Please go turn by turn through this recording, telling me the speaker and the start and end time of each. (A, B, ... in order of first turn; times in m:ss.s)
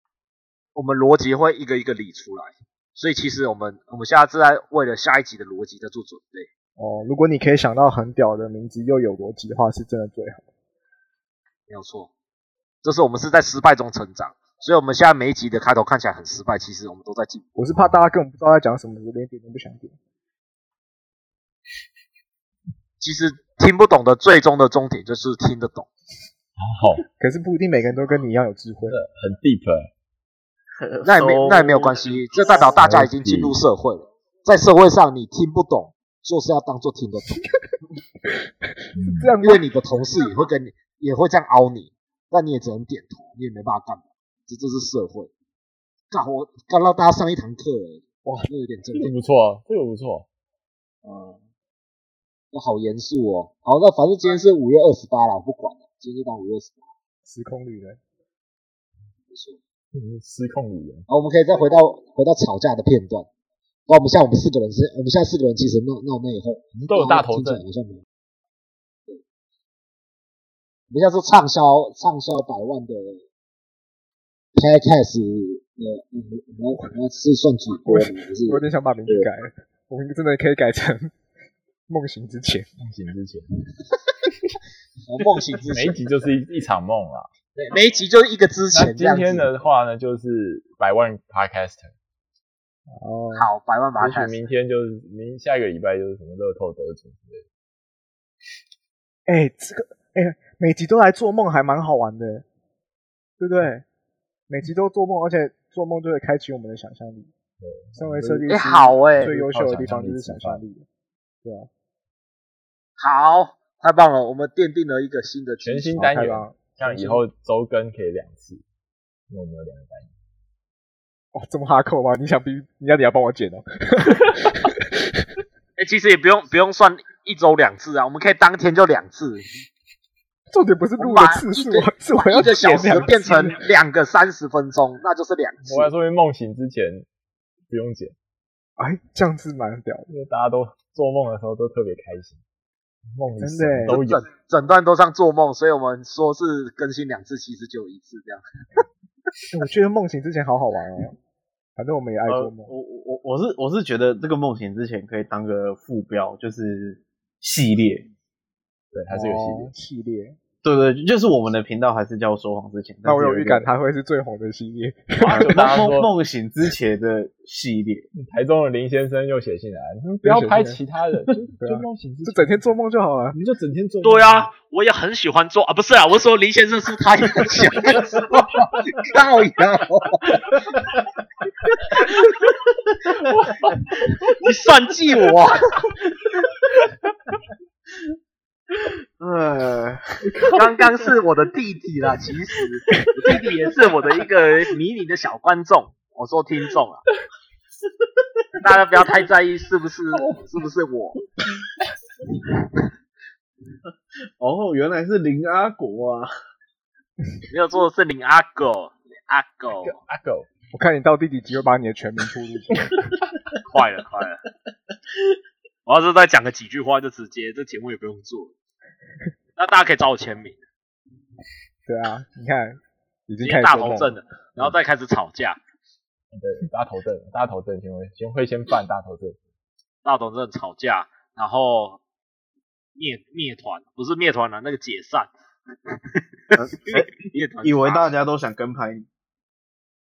0:00.7-0:06.5 A
0:06.8-0:10.4 B
0:11.7-0:12.1 A
0:12.8-0:17.4 A
0:17.5-0:20.0 B
0:23.0-0:25.9 A
0:26.6-0:27.0 C
0:27.2-0:29.0 B
0:28.9-0:29.9 C
0:30.8-0:32.1 D
0:31.0-0:37.4 A
0:32.6-0:33.6 C
0:38.9-0:39.6 B
0:39.0-0:39.3 C
0:39.4-0:45.3 A
0:46.1-0:49.1 A
0:48.2-0:48.5 B
0:49.0-0:50.3 C
0:51.0-0:51.4 D
0:52.5-0:56.8 A
0:57.2-0:58.0 B
0:59.3-0:59.6 A
0:59.9-1:01.0 C
1:01.1-1:03.3 A
1:03.9-1:08.0 A
1:06.7-1:07.6 C
1:10.9-1:13.2 A
1:14.6-1:19.3 A
1:17.8-1:21.1 B
1:21.9-1:22.7 B
1:22.8-1:23.5 C
1:25.0-1:26.0 A
1:25.7-1:27.3 C
1:27.5-1:29.6 A
1:28.7-1:31.9 C
1:32.9-1:33.5 B
1:33.3-1:34.4 A
1:34.0-1:37.4 C
1:39.3-1:42.4 B
1:43.4-1:43.8 B
1:44.5-1:47.3 B
1:47.6-1:48.5 C
1:47.9-1:50.8 B
1:48.5-1:49.3 A
1:49.1-1:50.6 C
1:51.4-1:51.7 B
1:53.0-1:55.9 A
1:55.6-1:58.6 C
1:55.9-1:57.2 B
1:59.3-2:00.1 C
2:01.3-2:05.2 B
2:05.8-2:09.4 A
2:10.5-2:13.6 B
2:11.0-2:15.9 A
2:15.6-2:17.1 C
2:17.7-2:18.1 C
2:18.8-2:20.1 B
2:20.1-2:22.4 C
2:23.1-2:24.2 C
2:23.4-2:24.0 B
2:23.9-2:28.8 A
2:29.5-2:31.2 B
2:31.8-2:32.7 B
2:32.3-2:38.1 D
2:38.9-2:39.7 C
2:39.1-2:40.4 B
2:40.6-2:43.7 D
2:43.0-2:45.5 B
2:45.2-2:46.1 C
2:45.3-2:48.1 D
2:48.1-2:52.7 C
2:50.2-2:50.8 B
2:51.6-2:53.4 B
2:53.3-2:54.5 C
2:54.0-3:00.9 A
3:01.7-3:02.6 A
3:03.2-3:03.9 C
3:04.3-3:05.7 A
3:09.2-3:10.3 D
3:10.2-3:10.9 C
3:10.5-3:17.0 A
3:13.2-3:13.5 C
3:18.6-3:21.2 A
3:20.2-3:20.4 C
3:24.4-3:26.3 D
3:27.5-3:30.0 A
3:29.8-3:30.5 C
3:30.7-3:32.9 B
3:33.6-3:34.4 A
3:35.8-3:38.5 A
3:39.6-3:40.6 A
3:41.8-3:44.2 B
3:43.4-3:45.6 A
3:46.3-3:49.4 C
3:50.0-3:52.0 A
3:52.9-3:55.3 A
3:55.9-3:56.6 A
3:56.6-3:59.1 D
3:57.2-3:58.1 A